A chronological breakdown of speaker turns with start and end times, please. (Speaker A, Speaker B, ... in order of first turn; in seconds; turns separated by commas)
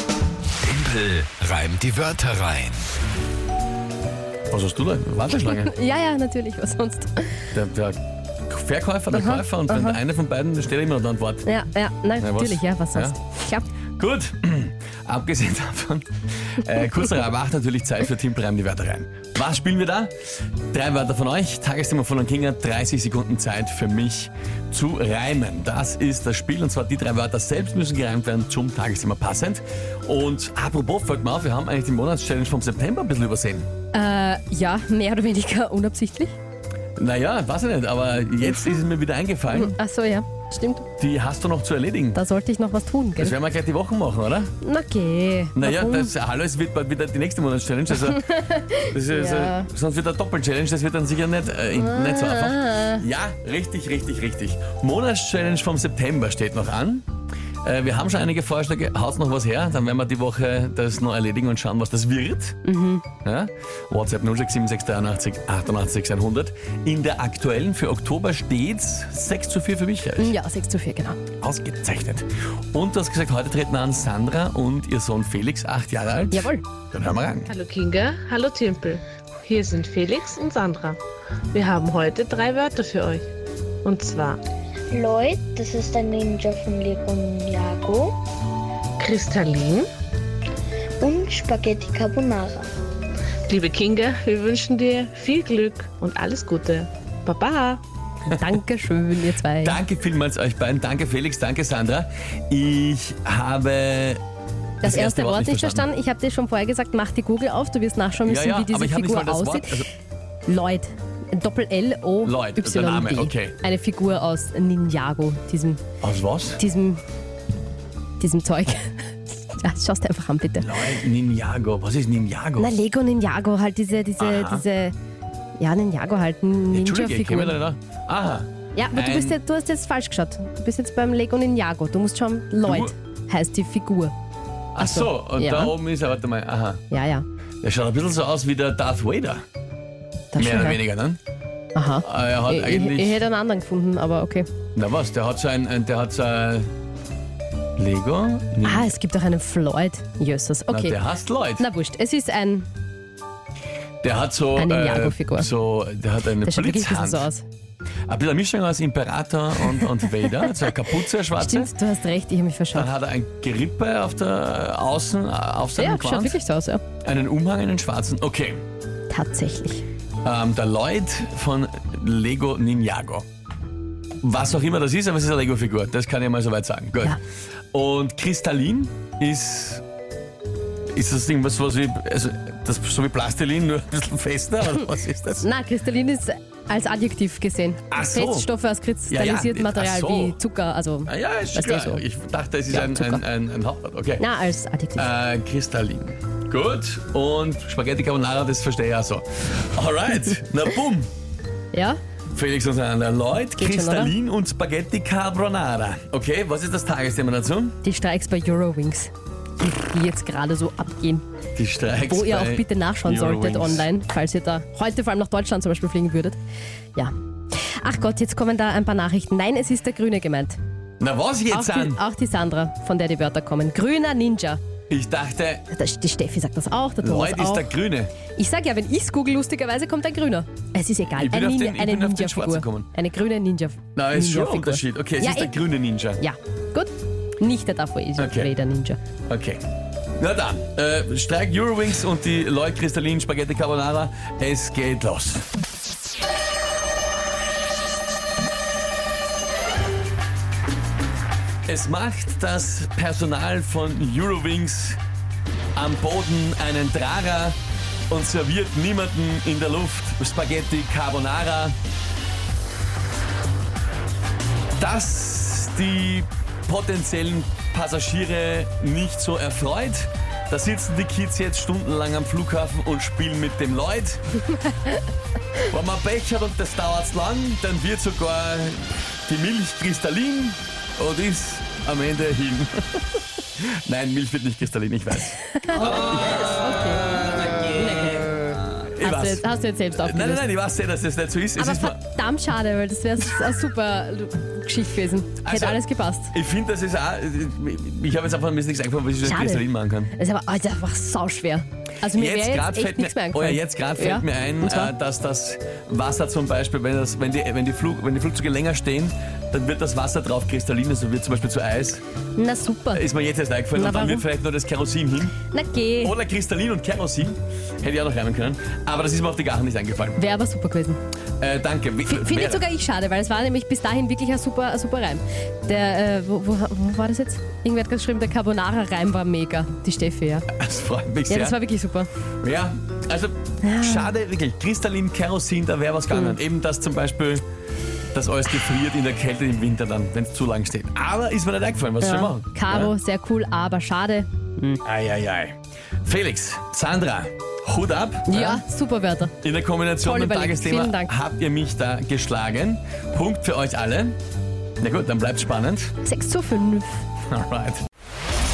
Speaker A: 0.6-2.8, Speaker B: 4.5-5.7, Speaker C: 5.3-7.4, Speaker B: 7.5-11.5, Speaker C: 9.1-10.0, Speaker C: 11.4-13.7, Speaker B: 12.2-13.2, Speaker B: 14.0-33.7, Speaker C: 33.9-36.4, Speaker B: 37.0-39.8, Speaker C: 38.4-38.8, Speaker C: 39.5-40.9, Speaker B: 41.0-42.2, Speaker C: 42.1-43.4, Speaker B: 43.1-44.5, Speaker C: 44.6-46.1, Speaker B: 45.5-57.0, Speaker C: 48.0-49.7, Speaker C: 51.7-53.0, Speaker B: 57.6-62.6, Speaker C: 62.6-63.0, Speaker B: 63.2-70.3, Speaker C: 70.2-71.2, Speaker B: 71.4-77.5, Speaker C: 76.3-76.6, Speaker D: 77.5-81.0, Speaker D: 81.5-83.2, Speaker D: 83.8-84.4, Speaker E: 84.9-88.2, Speaker D: 89.0-89.9, Speaker E: 91.0-92.7, Speaker D: 93.5-97.8, Speaker C: 98.2-99.8, Speaker B: 98.3-98.5, Speaker B: 99.6-104.2, Speaker B: 104.8-105.9, Speaker C: 104.8-109.8, Speaker B: 108.2-109.9, Speaker C: 110.5-115.8, Speaker B: 112.2-113.5, Speaker B: 116.0-116.6, Speaker C: 116.6-117.0, Speaker C: 118.2-120.8, Speaker B: 120.5-122.7, Speaker C: 122.6-124.9, Speaker B: 124.2-124.6, Speaker C: 125.6-127.6, Speaker B: 126.7-129.4, Speaker C: 128.7-134.1, Speaker B: 132.6-132.9, Speaker B: 134.8-136.8, Speaker C: 134.8-135.8, Speaker C: 136.9-137.2, Speaker B: 137.6-139.4, Speaker C: 140.3-140.8, Speaker B: 140.3-141.2, Speaker C: 141.7-144.5, Speaker B: 142.0-143.2, Speaker B: 144.7-146.7, Speaker B: 147.8-148.9, Speaker C: 148.6-151.0, Speaker B: 150.7-151.7, Speaker C: 151.6-152.7, Speaker B: 154.0-157.3, Speaker C: 154.6-155.5, Speaker C: 156.4-157.4, Speaker B: 158.1-161.7, Speaker C: 161.3-162.9, Speaker B: 162.7-166.4, Speaker C: 165.8-166.8, Speaker B: 167.0-168.6, Speaker C: 169.1-169.8, Speaker B: 170.2-173.2, Speaker B: 174.2-177.2, Speaker B: 177.7-179.8, Speaker B: 180.9-185.5, Speaker C: 185.4-192.0, Speaker B: 187.9-188.5, Speaker B: 189.1-190.4, Speaker B: 191.1-194.2, Speaker C: 192.7-193.2, Speaker C: 194.2-195.1, Speaker B: 194.9-201.1, Speaker C: 201.7-202.0, Speaker B: 202.3-207.8, Speaker C: 203.6-204.1, Speaker C: 207.8-211.2, Speaker B: 211.6-213.9, Speaker C: 212.1-216.4, Speaker C: 217.8-220.6, Speaker B: 221.0-222.0, Speaker C: 221.5-224.6, Speaker B: 224.9-225.6, Speaker C: 225.7-227.7, Speaker B: 227.0-228.1, Speaker C: 228.3-239.0, Speaker B: 231.1-232.9, Speaker B: 233.9-236.2, Speaker B: 238.2-238.5, Speaker B: 239.3-245.5, Speaker B: 251.7-255.0, Speaker B: 255.7-257.6, Speaker B: 258.1-261.8, Speaker B: 264.8-274.2, Speaker B: 275.7-286.1, Speaker C: 285.6-290.4, Speaker B: 288.9-292.0, Speaker C: 291.6-296.3, Speaker B: 295.4-300.1, Speaker C: 299.2-304.9, Speaker B: 302.1-312.0, Speaker C: 312.4-313.1, Speaker B: 312.9-315.3, Speaker C: 313.7-314.2, Speaker C: 315.4-316.1, Speaker B: 316.0-320.2, Speaker C: 320.2-321.0, Speaker B: 321.4-322.6, Speaker C: 322.1-330.5, Speaker B: 330.5-331.6, Speaker C: 331.3-332.1, Speaker B: 332.4-337.4, Speaker C: 333.6-334.1, Speaker C: 336.1-336.4, Speaker B: 338.1-342.9, Speaker C: 342.0-344.8, Speaker B: 344.8-348.6, Speaker C: 348.3-349.3, Speaker B: 349.4-354.1, Speaker C: 350.0-351.1, Speaker B: 354.8-355.9, Speaker C: 356.0-357.0, Speaker B: 357.3-357.8